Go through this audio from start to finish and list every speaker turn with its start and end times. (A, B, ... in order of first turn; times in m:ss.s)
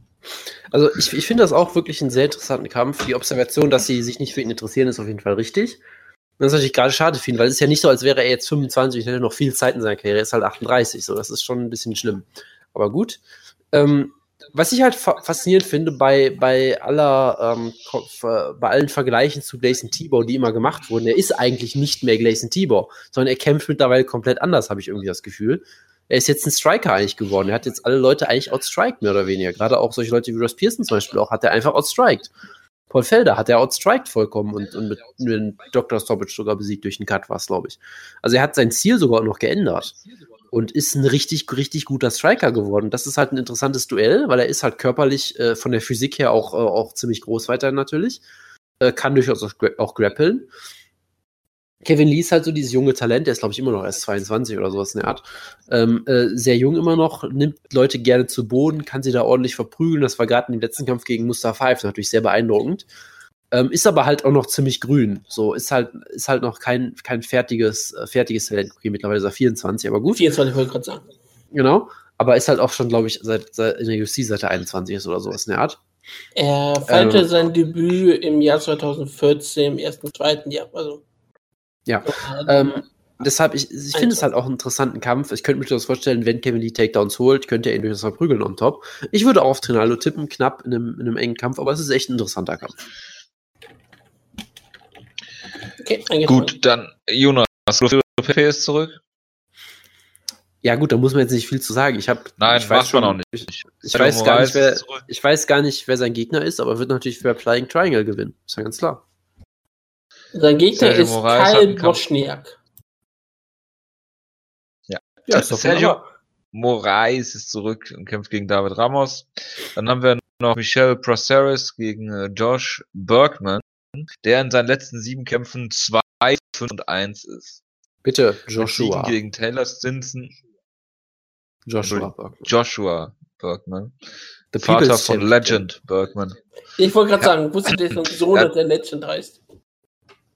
0:00.7-0:05.8 A
0:06.4-0:13.2 A
0:13.7-0:32.3 A
0:32.9-0:39.9 A
0:40.5-0:48.2 A
0:48.8-0:50.5 A
0:51.8-1:02.8 A
1:03.5-1:10.2 A
1:10.1-1:11.0 B
1:11.5-1:15.8 A
1:16.4-1:21.0 B
1:16.9-1:17.3 A
1:21.9-1:32.8 A
1:22.1-1:22.7 B
1:23.9-1:24.2 B
1:35.8-1:36.5 B
1:36.3-1:39.0 C
1:40.6-1:49.0 A
1:42.4-1:45.0 C
1:50.3-1:52.6 B
1:50.7-1:52.0 C
1:54.9-1:56.0 C
1:55.3-1:56.0 A
1:56.5-2:07.6 C
2:08.0-2:09.2 A
2:08.6-2:10.3 C
2:11.6-2:12.5 A
2:11.8-2:13.9 C
2:14.5-2:15.6 A
2:14.6-2:16.4 C
2:16.8-2:19.4 B
2:17.9-2:18.5 C